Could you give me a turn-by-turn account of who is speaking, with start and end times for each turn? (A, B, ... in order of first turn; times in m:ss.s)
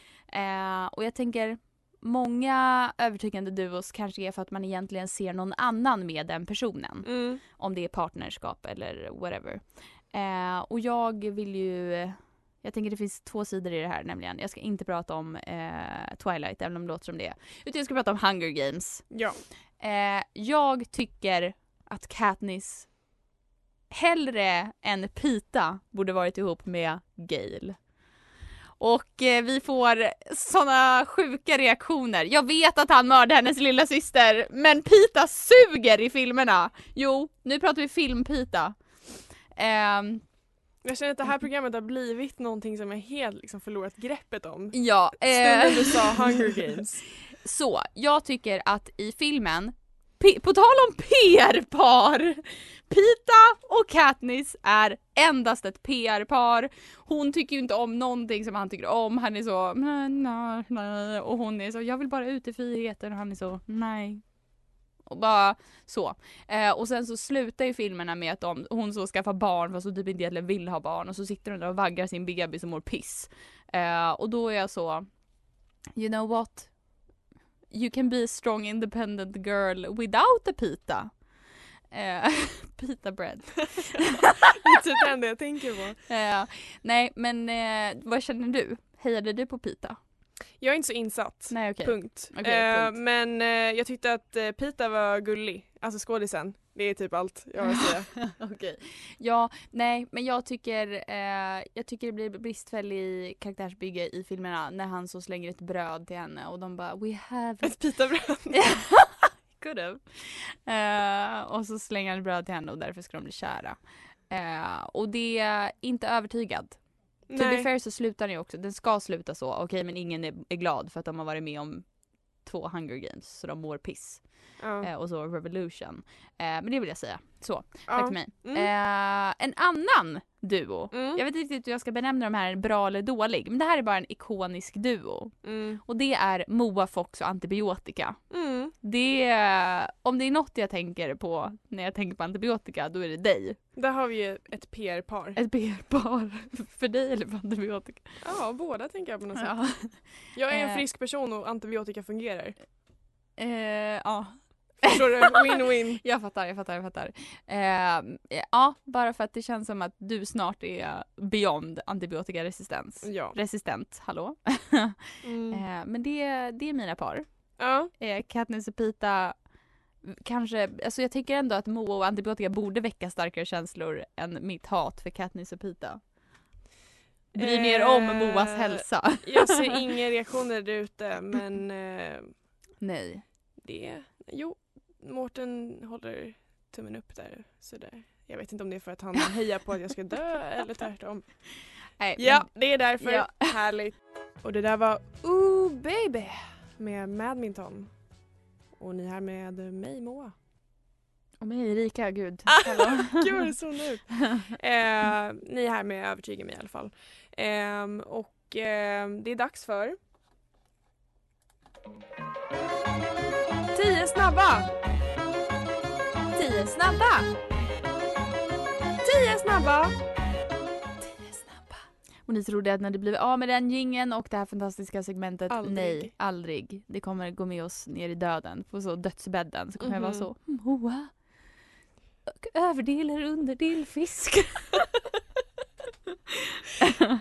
0:00.3-0:19.2 A
0:07.0-0:07.4 B
0:19.1-0:19.4 B
0:19.8-0:23.0 A
0:23.9-0:27.9 A
0:28.8-0:40.2 A
0:40.8-0:47.0 B
0:44.7-0:46.7 A
0:47.4-1:04.4 A
1:05.0-1:15.2 A
1:15.9-1:16.8 A
1:17.7-1:24.1 A
1:24.6-1:26.0 B
1:26.1-1:30.0 A
1:30.6-1:38.2 B
1:31.5-1:33.0 A
1:37.6-1:48.0 A
1:47.6-1:48.7 B
1:48.6-2:23.6 A
1:57.3-1:57.7 B
2:04.6-2:04.9 B
2:07.9-2:08.7 B
2:10.9-2:11.2 B
2:15.4-2:15.8 B
2:18.3-2:18.7 B
2:23.7-2:25.4 B
2:25.4-2:28.2 A
2:28.2-2:32.6 B
2:29.4-2:30.8 A
2:33.4-2:56.0 A
2:34.8-2:36.0 B
2:43.0-2:43.4 B
2:45.2-2:45.6 B
2:47.6-2:47.9 B
2:57.3-2:59.6 A
2:57.3-3:02.3 B
3:02.8-3:03.2 A
3:03.6-3:18.1 B
3:12.0-3:13.5 A
3:18.7-3:20.3 B
3:21.4-3:23.4 A
3:22.5-3:30.0 B
3:33.7-3:34.7 B
3:36.3-3:37.3 A
3:39.0-3:40.0 B
3:41.0-3:51.6 A
3:45.5-3:46.1 B
3:49.8-3:50.3 B
3:52.3-3:54.8 A